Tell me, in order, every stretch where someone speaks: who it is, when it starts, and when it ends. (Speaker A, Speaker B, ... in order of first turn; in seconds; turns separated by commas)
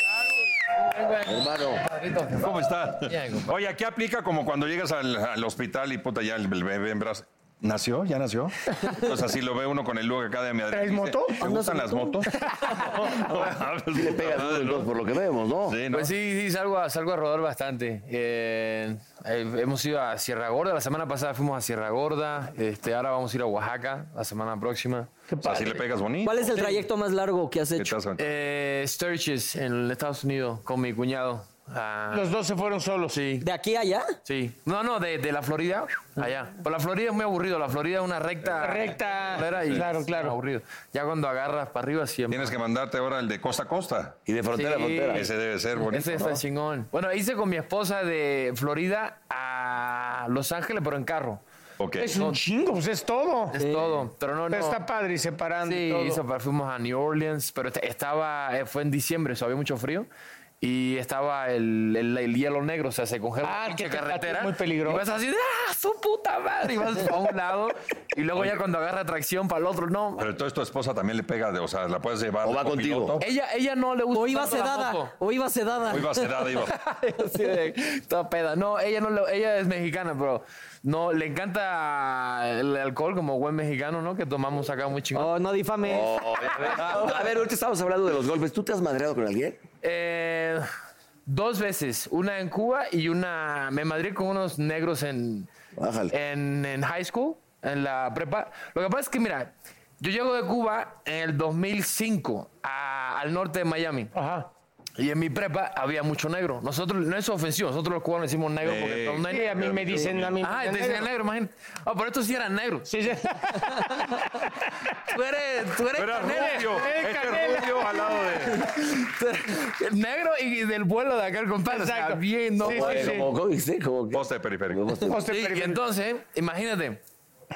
Speaker A: 0.1-3.5, Speaker B: 1.2-1.9, Speaker C: 2.4-14.9, Speaker D: 10.7-11.4, Speaker E: 11.4-12.2, Speaker B: 13.9-15.8, Speaker C: 15.7-16.1, Speaker A: 15.9-25.1, Speaker D: 25.3-25.9, Speaker C: 25.4-26.5, Speaker E: 26.2-28.0, Speaker A: 26.6-26.8, Speaker C: 27.8-28.2, Speaker A: 28.2-32.2, Speaker D: 32.1-33.2, Speaker A: 33.1-33.5, Speaker E: 33.4-34.1, Speaker A: 34.2-42.5, Speaker D: 38.6-40.4, Speaker C: 39.5-39.9, Speaker C: 42.3-44.2, Speaker B: 44.2-45.3, Speaker A: 44.5-45.3, Speaker C: 45.1-46.4, Speaker A: 45.8-51.4, Speaker C: 51.8-52.1, Speaker D: 52.0-53.6, Speaker A: 53.5-54.8, Speaker E: 53.6-53.9, Speaker D: 54.5-56.2, Speaker A: 55.6-60.1, Speaker A: 60.6-70.2, Speaker D: 63.4-65.0, Speaker C: 68.3-68.6, Speaker C: 70.2-73.3, Speaker B: 72.4-73.2, Speaker A: 73.2-75.1, Speaker E: 74.1-76.3, Speaker C: 75.9-76.7, Speaker A: 76.7-85.3, Speaker E: 85.1-86.3, Speaker B: 85.8-89.6, Speaker A: 89.8-90.7, Speaker A: 91.3-95.5, Speaker B: 95.8-96.1, Speaker A: 96.1-104.1, Speaker D: 104.1-104.5, Speaker A: 105.0-109.6, Speaker C: 108.6-110.4, Speaker D: 109.3-111.1, Speaker A: 110.4-112.9, Speaker D: 112.9-114.2, Speaker A: 115.1-116.7, Speaker C: 115.9-118.7, Speaker D: 116.2-118.2, Speaker A: 118.5-123.1, Speaker D: 121.7-123.3, Speaker B: 122.6-125.2, Speaker C: 124.1-125.0, Speaker D: 125.1-125.8, Speaker A: 125.3-127.0